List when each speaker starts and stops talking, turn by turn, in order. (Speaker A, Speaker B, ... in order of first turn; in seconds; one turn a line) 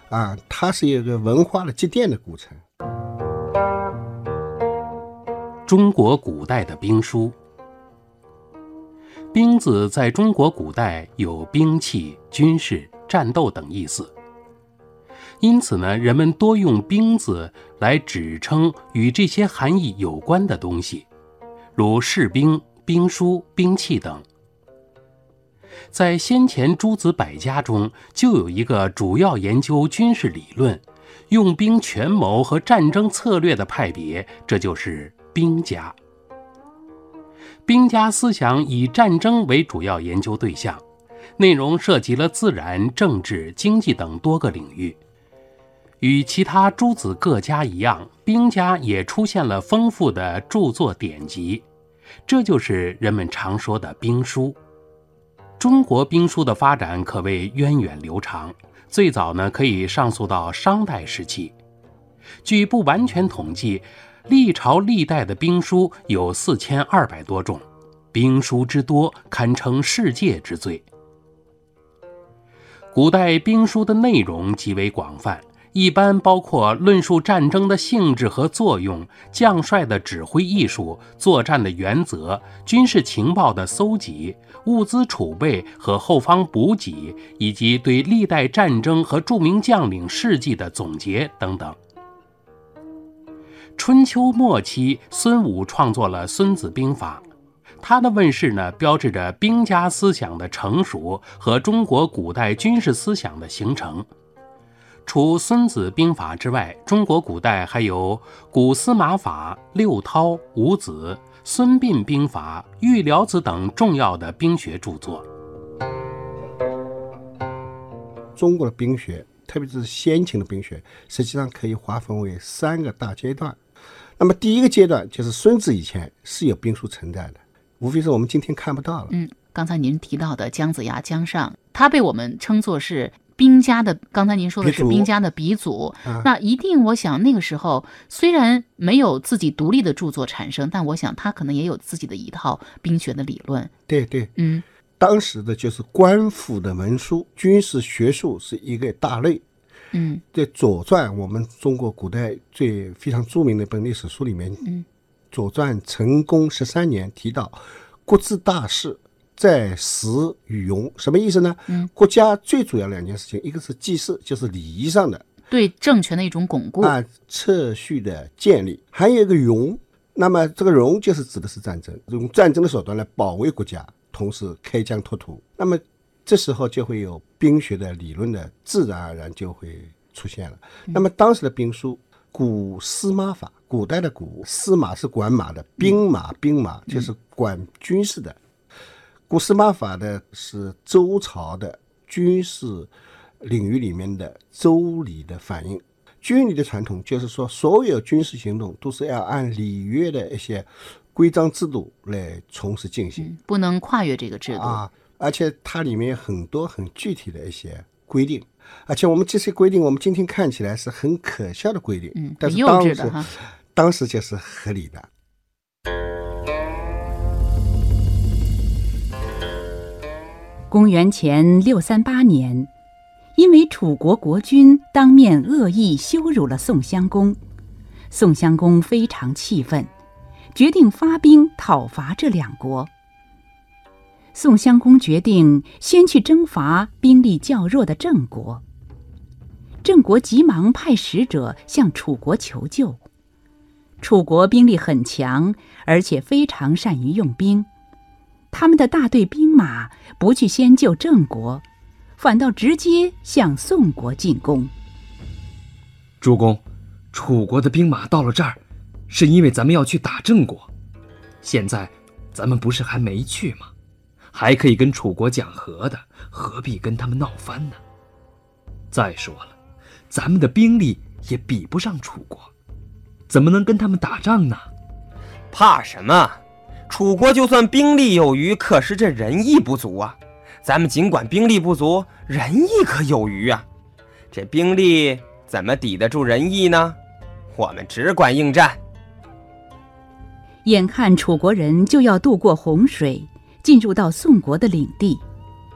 Speaker A: 0.1-2.6
Speaker B: 5.7-7.3
Speaker B: 9.3-14.1
Speaker B: 15.4-21.1
Speaker B: 21.8-24.2
Speaker B: 25.9-36.0
Speaker B: 37.7-40.8
Speaker B: 41.4-45.0
Speaker B: 46.0-51.6
Speaker B: 52.3-54.6
Speaker B: 55.6-61.5
Speaker B: 62.4-70.9
Speaker B: 72.9-91.8
Speaker B: 93.8-97.3
Speaker B: 97.8-104.1
Speaker B: 105.1-115.2
Speaker A: 118.4-123.6
Speaker A: 124.2-129.1
Speaker C: 129.1-143.7
Speaker A: 134.6-135.1
Speaker A: 136.1-136.3
Speaker A: 143.9-144.3
Speaker C: 144.4-144.6
Speaker A: 145.0-149.4
Speaker C: 149.9-150.2
Speaker A: 150.3-154.7
Speaker A: 155.3-165.2
Speaker C: 165.5-166.9
Speaker A: 166.8-188.4
Speaker A: 189.3-192.9
Speaker A: 193.4-203.3
Speaker C: 203.2-204.8
Speaker A: 204.5-215.1
Speaker C: 212.2-213.3
Speaker D: 220.7-222.7
Speaker D: 223.4-227.4
Speaker D: 228.1-229.9
Speaker D: 230.5-232.9
Speaker D: 234.3-238.6
Speaker D: 239.8-243.0
Speaker D: 244.0-247.7
Speaker D: 248.5-251.7
Speaker D: 252.2-254.7
Speaker E: 256.2-260.7
Speaker E: 261.4-263.7
Speaker E: 264.3-267.8
Speaker E: 268.9-269.6
Speaker E: 270.1-272.5
Speaker E: 273.3-274.7
Speaker F: 275.5-283.7
Speaker F: 284.3-287.0
Speaker F: 287.5-288.8
Speaker D: 290.6-295.2